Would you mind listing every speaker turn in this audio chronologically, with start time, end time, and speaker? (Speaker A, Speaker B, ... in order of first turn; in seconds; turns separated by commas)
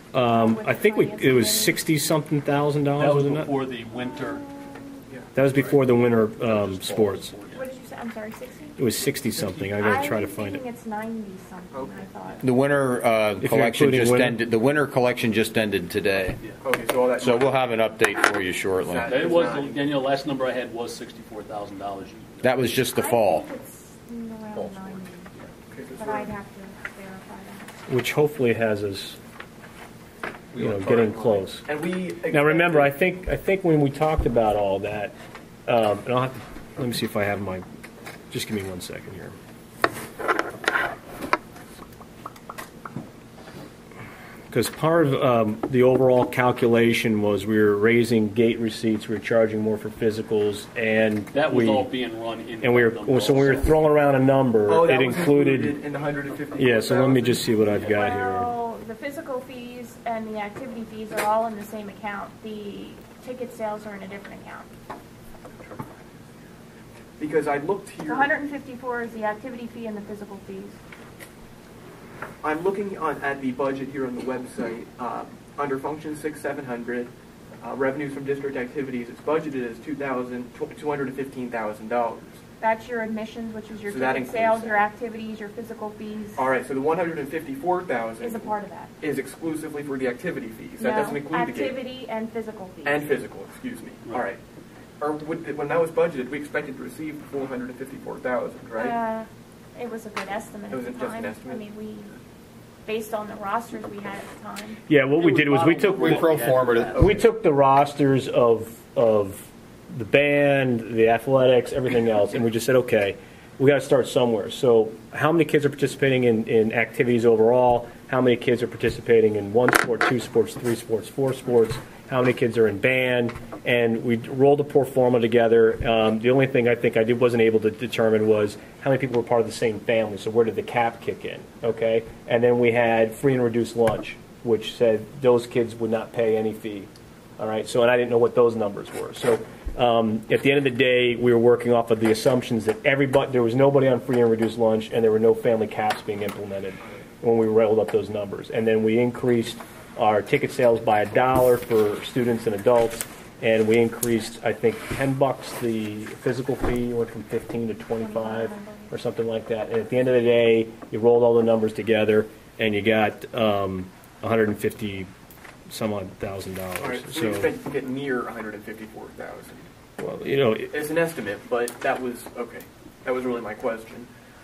Speaker A: 0.1-3.5, Speaker B: 0.2-1.8, Speaker C: 3.0-4.4, Speaker B: 3.9-5.0, Speaker A: 5.3-7.3, Speaker C: 5.4-7.7, Speaker B: 7.5-8.8, Speaker A: 8.8-10.6, Speaker C: 9.2-9.7, Speaker B: 9.8-12.5, Speaker D: 11.7-12.3, Speaker E: 12.4-16.4, Speaker A: 13.4-14.3, Speaker D: 16.6-17.6, Speaker E: 17.2-19.2, Speaker D: 18.8-19.7, Speaker C: 19.1-22.8, Speaker E: 22.4-23.5, Speaker B: 22.9-25.3, Speaker D: 25.7-26.3, Speaker B: 26.0-27.7, Speaker A: 27.9-29.2, Speaker D: 30.5-32.9, Speaker A: 30.5-31.6, Speaker A: 32.3-35.1, Speaker A: 35.6-37.6, Speaker A: 38.3-39.3, Speaker A: 44.5-51.9, Speaker C: 51.3-53.7, Speaker A: 52.6-55.8, Speaker D: 54.7-57.4, Speaker A: 56.6-58.5, Speaker B: 57.8-64.7, Speaker D: 65.6-65.9, Speaker D: 67.2-68.3, Speaker B: 68.0-70.8, Speaker D: 72.4-82.4, Speaker B: 82.6-86.5, Speaker D: 83.8-84.8, Speaker D: 86.4-91.8, Speaker B: 88.2-88.9, Speaker B: 90.8-93.1, Speaker D: 92.8-94.4, Speaker D: 95.0-99.0, Speaker B: 98.8-102.1, Speaker D: 100.7-101.7, Speaker B: 102.8-104.8, Speaker A: 104.9-106.3, Speaker C: 105.2-107.0, Speaker E: 105.9-107.2, Speaker A: 106.9-165.1, Speaker B: 157.9-158.9, Speaker A: 165.7-167.5, Speaker D: 166.8-169.7, Speaker A: 170.0-170.7, Speaker D: 170.7-174.1